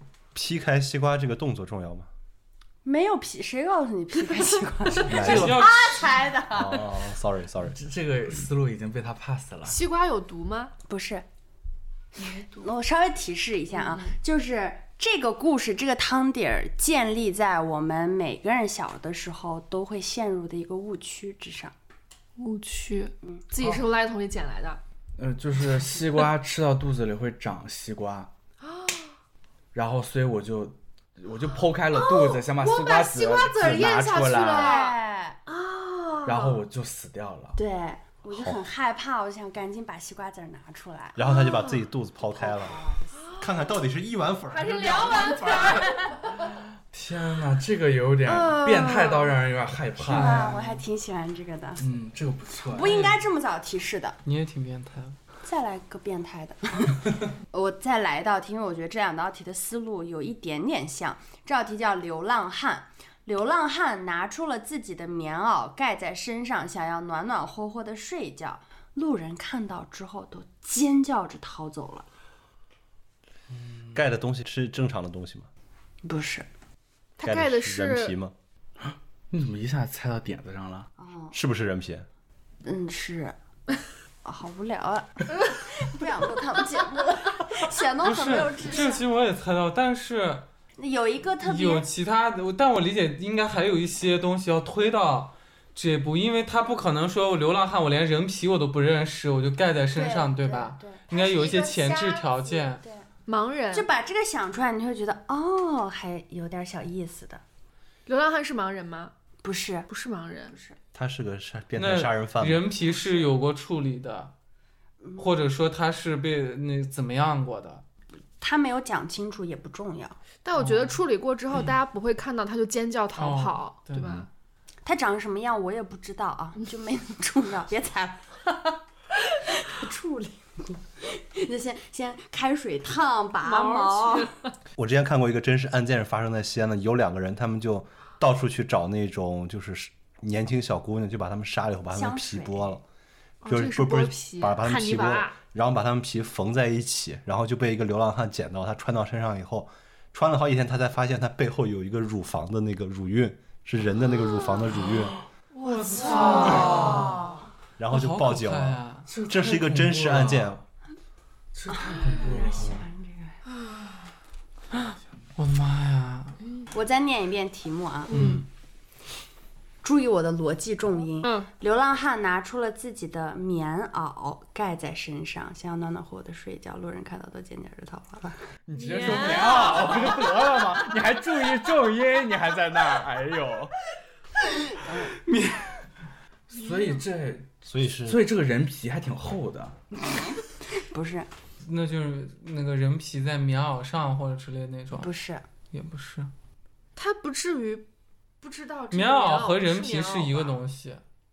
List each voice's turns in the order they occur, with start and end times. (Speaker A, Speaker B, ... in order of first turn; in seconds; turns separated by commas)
Speaker A: 0.3-2.1, Speaker B: 2.8-6.8, Speaker C: 5.0-5.7, Speaker A: 5.1-5.6, Speaker D: 5.2-6.2, Speaker A: 6.5-7.8, Speaker C: 7.7-9.8, Speaker E: 9.7-10.7, Speaker B: 10.9-11.3, Speaker B: 12.2-21.7, Speaker E: 22.4-24.8, Speaker C: 25.2-28.3, Speaker E: 28.7-29.0, Speaker C: 29.7-34.8, Speaker E: 31.9-36.6, Speaker B: 34.5-35.4, Speaker C: 36.2-37.6, Speaker B: 37.6-41.3, Speaker A: 38.3-38.6, Speaker A: 41.1-42.8, Speaker E: 41.3-41.8, Speaker B: 42.3-43.3, Speaker A: 43.4-45.9, Speaker E: 44.5-46.4, Speaker B: 45.2-46.2, Speaker C: 46.9-50.8, Speaker E: 48.3-49.4, Speaker B: 50.0-51.8, Speaker D: 50.1-50.6, Speaker C: 51.8-53.1, Speaker B: 52.7-54.2, Speaker D: 52.8-53.2, Speaker D: 54.2-55.2, Speaker B: 55.4-72.1, Speaker C: 73.5-74.0, Speaker A: 73.9-75.5, Speaker B: 76.0-76.5, Speaker E: 77.2-78.2, Speaker A: 77.2-78.3, Speaker C: 78.8-80.9, Speaker B: 81.0-81.4, Speaker A: 81.3-82.1, Speaker B: 82.6-83.3, Speaker B: 84.2-89.0, Speaker D: 88.0-90.5, Speaker B: 90.8-91.8, Speaker D: 91.4-102.8, Speaker B: 99.9-103.1, Speaker E: 101.6-101.9, Speaker E: 103.3-103.9, Speaker B: 103.7-107.4, Speaker E: 108.1-109.1, Speaker B: 109.4-109.9, Speaker E: 109.9-110.6, Speaker B: 110.5-110.8, Speaker A: 110.9-112.7, Speaker D: 111.8-114.3, Speaker B: 115.0-115.3, Speaker D: 115.2-117.8, Speaker B: 118.4-120.2, Speaker E: 120.5-124.3, Speaker D: 120.6-121.0, Speaker D: 123.2-124.2, Speaker B: 124.8-134.3, Speaker E: 133.4-134.4, Speaker A: 134.8-142.8, Speaker B: 141.9-142.8, Speaker E: 143.4-145.4, Speaker A: 143.5-155.2, Speaker E: 155.6-157.2, Speaker D: 155.6-157.1, Speaker B: 156.3-157.0, Speaker C: 156.3-157.2, Speaker A: 157.8-160.6, Speaker D: 157.9-159.1, Speaker C: 159.1-160.6, Speaker C: 161.5-162.9, Speaker B: 161.8-163.4, Speaker D: 165.4-166.4, Speaker B: 166.7-168.3, Speaker E: 168.1-168.4, Speaker C: 168.1-168.4, Speaker B: 169.8-178.4, Speaker E: 171.2-171.5, Speaker C: 178.7-183.7, Speaker E: 178.8-180.1, Speaker B: 184.8-185.2, Speaker D: 185.2-185.7, Speaker C: 186.5-189.8, Speaker A: 187.7-188.2, Speaker B: 190.2-191.3, Speaker D: 191.6-195.1, Speaker B: 195.0-195.4, Speaker D: 195.7-196.3, Speaker E: 197.0-197.9, Speaker E: 198.4-200.6, Speaker D: 198.9-201.0